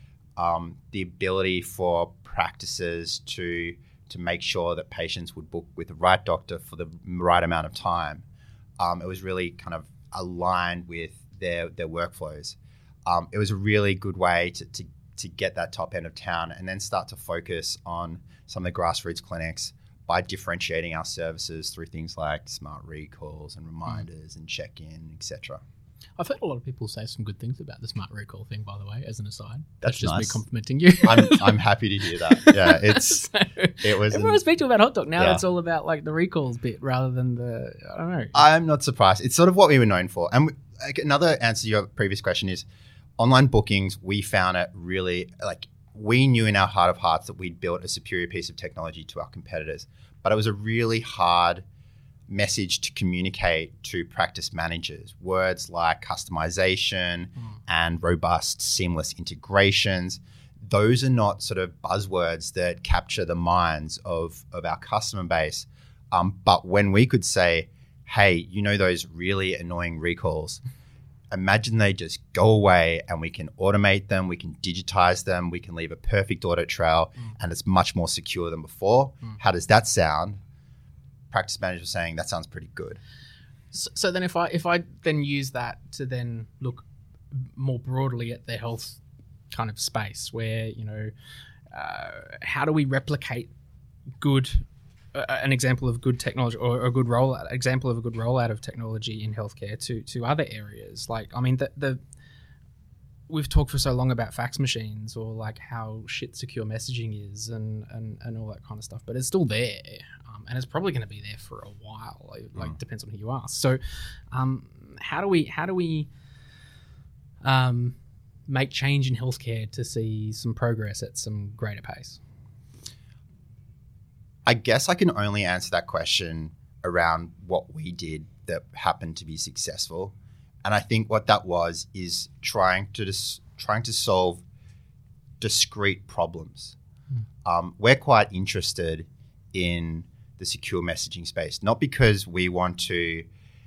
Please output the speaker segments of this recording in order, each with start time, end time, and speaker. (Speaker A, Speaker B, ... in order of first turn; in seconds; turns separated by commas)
Speaker A: 0.3-8.2, Speaker A: 8.8-25.6, Speaker B: 26.2-31.6, Speaker A: 29.8-30.4, Speaker A: 31.0-33.3, Speaker B: 32.3-38.4, Speaker A: 33.8-34.4, Speaker A: 35.2-35.4, Speaker A: 38.3-42.6, Speaker A: 43.2-51.6, Speaker A: 52.3-70.6, Speaker A: 71.3-80.4, Speaker A: 81.3-83.0, Speaker B: 83.7-89.0, Speaker B: 89.5-91.1, Speaker B: 91.7-93.5, Speaker B: 94.2-102.0, Speaker B: 103.3-113.8, Speaker B: 114.3-116.1, Speaker B: 117.4-118.0, Speaker B: 118.5-122.2, Speaker A: 124.5-130.1, Speaker A: 130.6-134.4, Speaker A: 135.4-136.8, Speaker A: 137.4-143.3